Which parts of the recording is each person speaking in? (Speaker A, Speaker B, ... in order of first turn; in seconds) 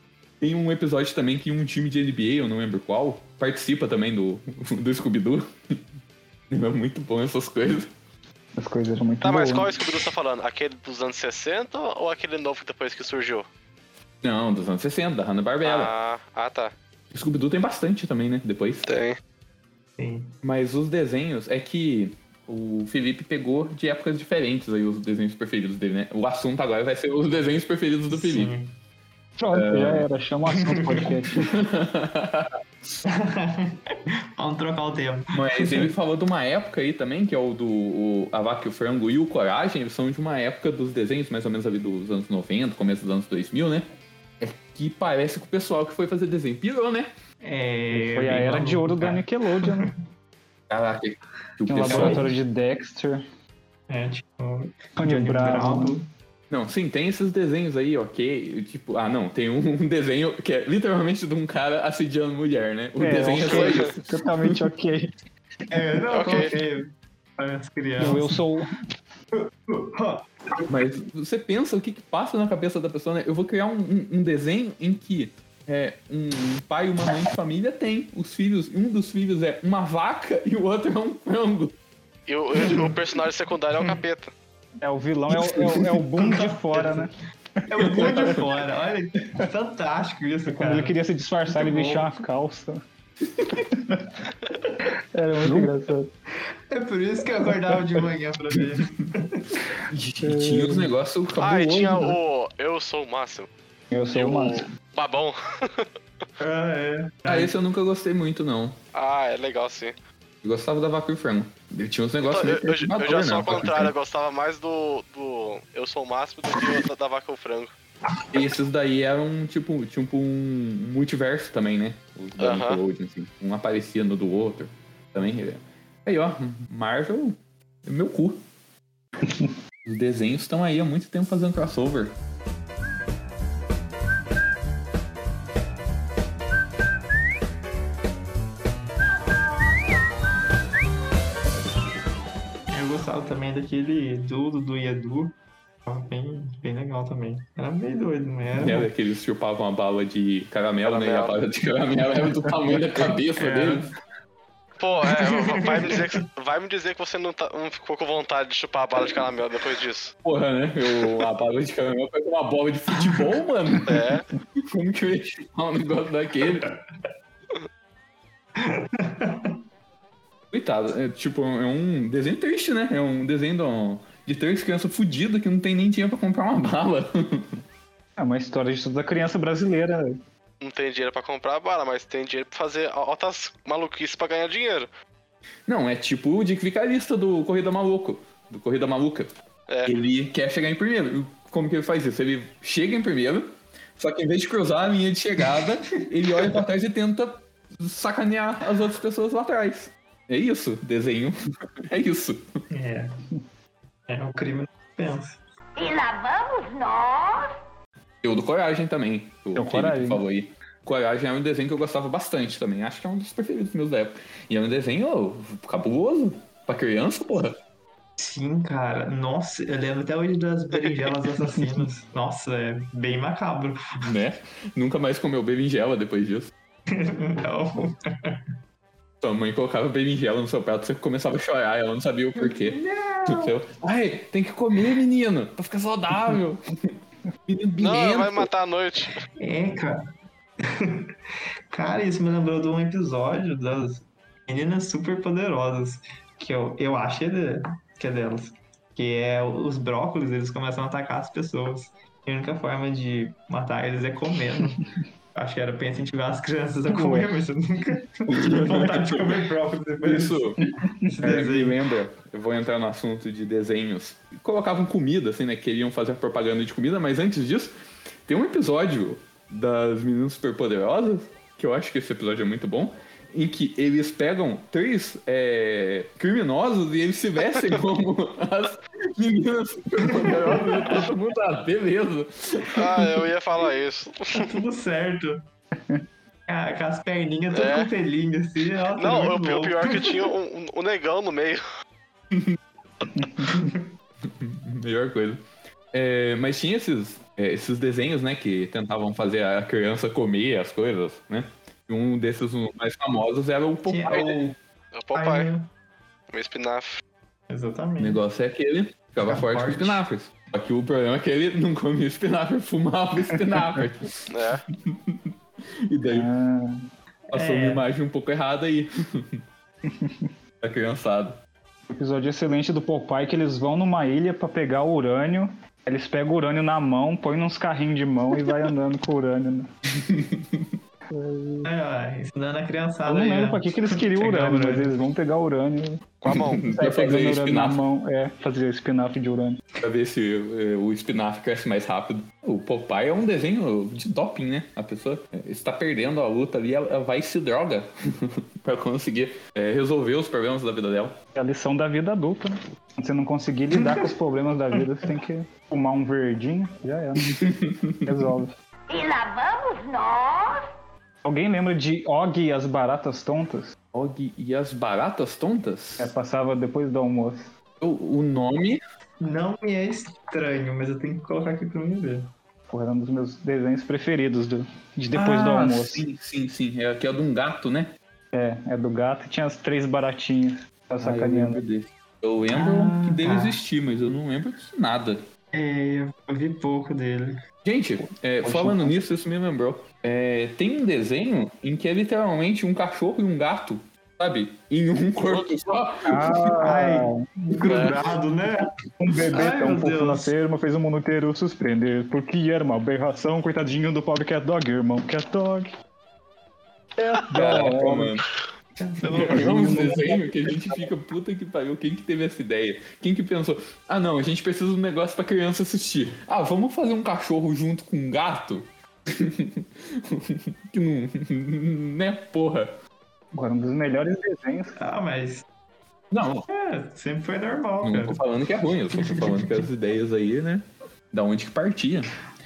Speaker A: 0.4-5.8, 6.5-7.9, 14.2-15.9, 17.1-18.9, 20.4-28.5, 29.5-30.1, 31.4-32.5, 35.3-43.9, 44.4-47.1, 50.7-52.3, 56.5-64.6, 70.7-81.8, 85.3-85.7, 87.8-88.3, 99.9-102.2, 107.2-108.8, 110.4-113.9, 118.3-128.4, 129.8-132.2, 148.5-153.9, 160.2-164.1, 164.6-166.7, 170.5-177.5, 185.7-189.3, 189.8-202.4, 208.2-217.6, 224.0-226.5, 229.2-236.9, 237.5-238.5, 258.3-259.4, 260.0-260.6, 261.2-267.7, 268.2-283.2, 292.3-292.6, 294.2-295.4, 295.9-304.6, 308.0-315.3, 315.8-316.3, 317.3-319.4, 320.6-321.4, 329.9-330.7, 336.3-337.8, 339.8-351.1, 357.2-358.3, 363.9-366.1, 367.8-368.8, 375.1-377.9, 381.0-385.2, 387.6-396.6, 397.7-398.0, 407.3-408.2, 409.0-422.7, 426.1-426.5, 427.8-432.1
Speaker B: 8.6-9.7, 29.4-31.5, 47.9-49.9, 51.7-53.2, 55.0-55.9, 63.0-65.1, 68.0-68.7, 84.8-88.4, 90.5-92.8, 93.5-94.0, 94.8-96.1, 100.2-100.9, 103.9-104.7, 129.2-129.5, 178.2-180.2, 209.6-210.2, 256.9-257.3, 293.1-293.5, 316.1-316.8, 319.9-320.3, 321.9-329.7, 331.1-331.7, 333.1-336.1, 336.6-339.6, 351.3-357.5, 358.0-358.5, 361.2-363.7, 366.0-367.5, 372.7-376.0, 378.3-381.6, 388.4-388.9, 396.1-397.2, 399.0-405.7, 407.0-408.2, 409.2-410.7, 423.3-424.8
Speaker C: 9.2-13.4, 15.6-16.7, 18.9-19.2, 66.1-66.5, 82.3-84.3, 101.4-103.5, 104.1-105.9, 108.9-109.9, 112.2-117.7, 122.4-122.8, 150.8-151.3, 154.8-160.1, 163.8-164.2, 180.6-184.9, 189.7-189.9, 237.8-239.2, 282.7-284.6, 287.5-287.9, 288.9-291.6, 304.9-305.5, 306.3-307.0, 314.3-314.6, 336.2-336.6
Speaker D: 20.0-20.3, 28.1-28.7, 30.6-31.1, 33.0-35.9, 47.4-49.9, 51.8-52.3, 53.9-56.1, 65.7-68.4, 69.3-70.7, 82.6-82.9, 86.1-87.1, 87.7-91.0, 91.5-92.1, 96.7-99.6, 106.4-107.5, 142.7-145.3, 145.8-148.9, 153.4-153.9, 155.0-156.0, 168.6-169.6, 202.7-203.1, 204.1-205.4, 218.2-223.8, 226.9-228.4, 232.4-233.5, 239.4-240.0, 240.6-241.1, 241.7-261.8, 280.1-281.0, 284.3-285.4, 286.5-290.3, 293.4-293.9, 303.9-304.5, 305.1-305.7, 307.5-308.2, 309.2-310.0, 317.3-317.8, 331.6-334.9, 369.2-372.3, 382.5-383.6, 385.5-387.4, 396.6-398.7, 399.3-400.3, 408.8-409.9, 424.8-425.4, 426.5-428.2, 428.9-429.5
Speaker E: 205.8-207.5, 358.9-360.6